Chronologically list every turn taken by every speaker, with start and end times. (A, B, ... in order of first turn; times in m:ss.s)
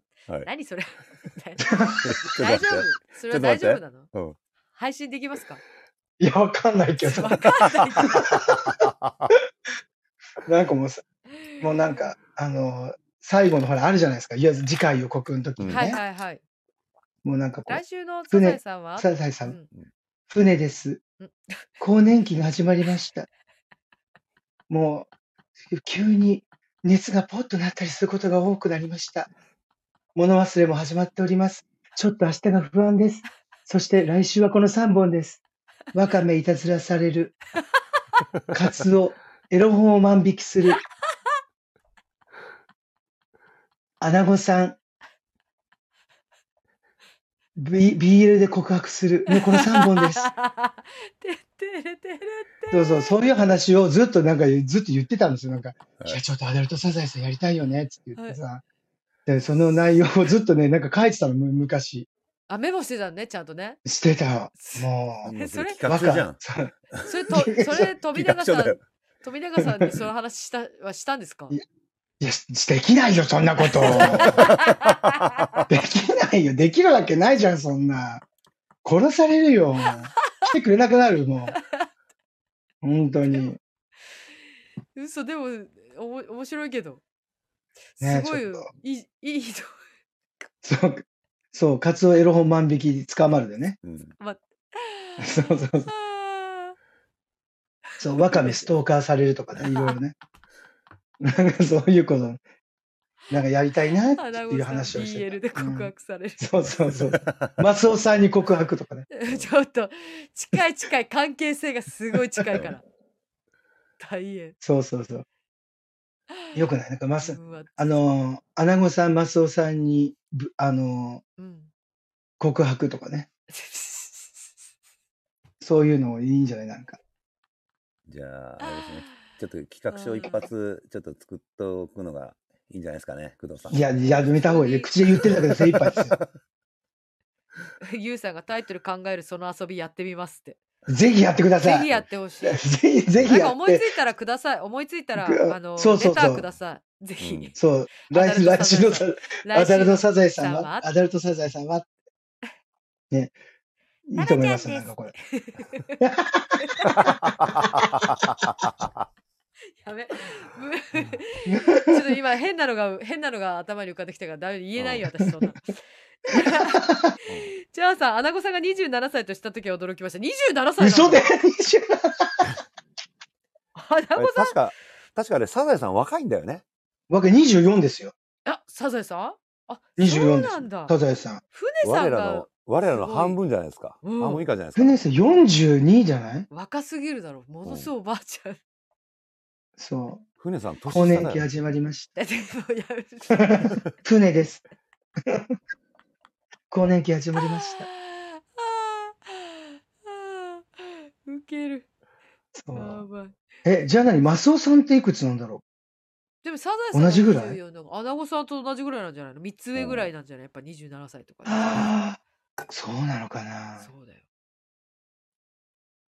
0:00.4-0:04.1 A
0:01.6-0:02.0 B
0:02.0-0:04.4 C
0:04.8-0:05.6 A
0:06.2-0:08.8 B
0:07.0-0:08.4 A
0:08.5-0:09.3 C
0:10.4-0:11.0 B
0:11.6-0:16.0 B
0:15.6-0:15.9 C
0:15.7-0:16.4 A
0:17.2-0:19.6 B
0:17.7-0:19.7 A
0:20.3-0:21.0 B
0:21.2-0:21.8 A
0:21.8-0:23.3 B
0:24.7-0:25.1 B
0:25.7-0:29.3 B
0:30.2-0:35.4 B
0:35.9-0:37.4 B
0:38.5-0:40.8 B
0:44.0-0:44.8 B
0:47.6-0:50.3 B
0:49.3-0:53.2 A
0:52.7-0:58.6 B
0:59.3-1:02.1 B
1:02.5-1:03.8 A
1:03.8-1:05.3 B
1:04.6-1:05.8 A
1:05.2-1:06.4 C
1:05.8-1:06.7 B
1:07.0-1:11.6 A
1:07.3-1:07.9 B
1:08.1-1:08.8 C
1:09.6-1:09.9 B
1:12.2-1:14.5 B
1:13.6-1:15.6 A
1:13.9-1:14.9 C
1:15.7-1:18.2 B
1:18.8-1:21.6 B
1:19.8-1:20.5 A
1:21.5-1:21.9 A
1:22.8-1:23.6 B
1:23.2-1:23.5 A
1:24.9-1:27.0 A
1:28.0-1:29.8 A
1:28.0-1:28.7 B
1:30.6-1:33.8 B
1:33.8-1:34.2 C
1:34.2-1:36.8 A
1:35.2-1:35.9 B
1:37.9-1:38.7 A
1:38.0-1:40.2 B
1:39.7-1:40.0 A
1:41.2-1:42.4 B
1:43.3-1:49.1 B
1:44.1-1:46.5 A
1:46.9-1:47.6 C
1:49.1-1:52.8 A
1:54.0-1:54.6 A
1:54.6-1:55.2 B
1:56.3-1:56.6 A
1:56.6-2:01.2 B
1:57.2-1:58.0 A
2:01.4-2:01.7 A
2:02.4-2:03.3 B
2:03.5-2:04.7 A
2:05.6-2:07.0 B
2:08.1-2:14.2 C
2:08.6-2:09.3 A
2:09.9-2:10.5 A
2:13.7-2:16.2 B
2:14.4-2:15.3 A
2:15.3-2:16.2 C
2:17.8-2:20.6 A
2:20.9-2:21.9 B
2:21.6-2:22.6 A
2:22.4-2:23.9 B
2:23.2-2:30.9 A
2:25.2-2:26.4 B
2:27.2-2:27.5 C
2:27.6-2:31.9 B
2:34.1-2:35.1 B
2:34.2-2:36.0 A
2:36.0-2:37.3 B
2:36.6-2:37.0 A
2:39.8-2:51.3 A
2:41.5-2:42.0 B
2:44.8-2:45.0 C
2:46.5-2:47.2 B
2:50.8-2:52.6 B
2:53.8-2:54.6 A
2:54.2-2:56.6 C
2:57.1-2:58.1 B
2:58.5-3:01.0 A
3:00.0-3:01.4 B
3:01.5-3:03.4 A
3:01.8-3:05.0 C
3:04.0-3:04.4 A
3:04.8-3:06.5 B
3:06.5-3:08.6 A
3:07.6-3:07.9 C
3:09.8-3:10.3 B
3:10.4-3:11.5 C
3:10.9-3:12.1 B
3:12.2-3:13.8 A
3:13.3-3:14.6 B
3:15.2-3:15.5 B
3:16.7-3:17.9 B
3:17.4-3:21.9 A
3:22.6-3:23.0 B
3:22.7-3:23.4 A
3:23.6-3:25.6 B
3:26.4-3:31.9 A
3:26.9-3:27.6 B
3:29.8-3:30.1 C
3:31.5-3:33.9 B
3:33.8-3:34.2 A